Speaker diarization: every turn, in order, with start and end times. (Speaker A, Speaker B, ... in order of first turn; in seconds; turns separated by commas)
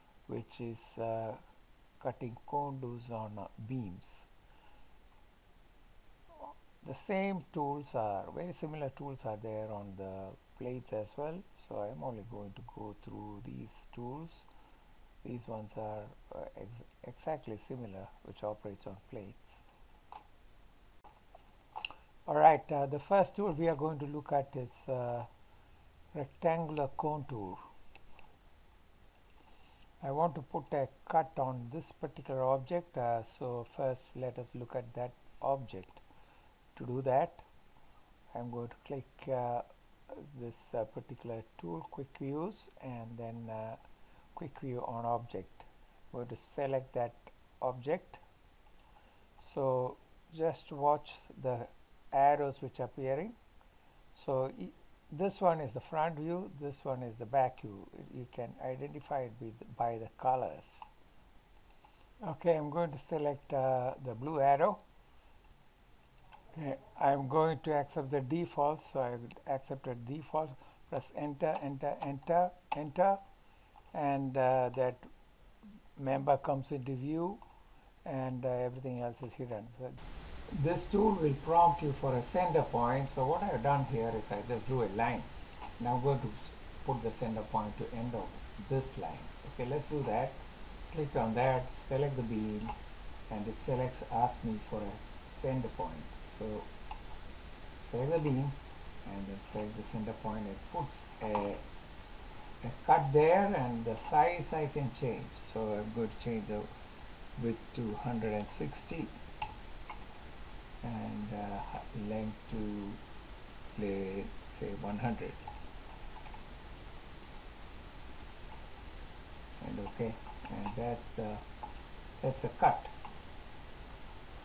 Speaker A: 0.3-1.4, Speaker A: 2.0-4.3, Speaker A: 6.8-14.5, Speaker A: 15.2-19.6, Speaker A: 22.3-25.3, Speaker A: 26.1-27.7, Speaker A: 30.0-36.0, Speaker A: 36.8-37.5, Speaker A: 38.3-43.8, Speaker A: 44.4-48.2, Speaker A: 49.4-53.4, Speaker A: 54.1-60.9, Speaker A: 62.2-64.8, Speaker A: 66.5-73.2, Speaker A: 73.9-75.1, Speaker A: 76.0-77.4, Speaker A: 78.0-92.7, Speaker A: 93.3-96.7, Speaker A: 97.8-101.6, Speaker A: 102.6-106.7, Speaker A: 107.4-109.1, Speaker A: 110.8-113.0, Speaker A: 113.8-115.4, Speaker A: 119.6-121.4, Speaker A: 122.2-122.9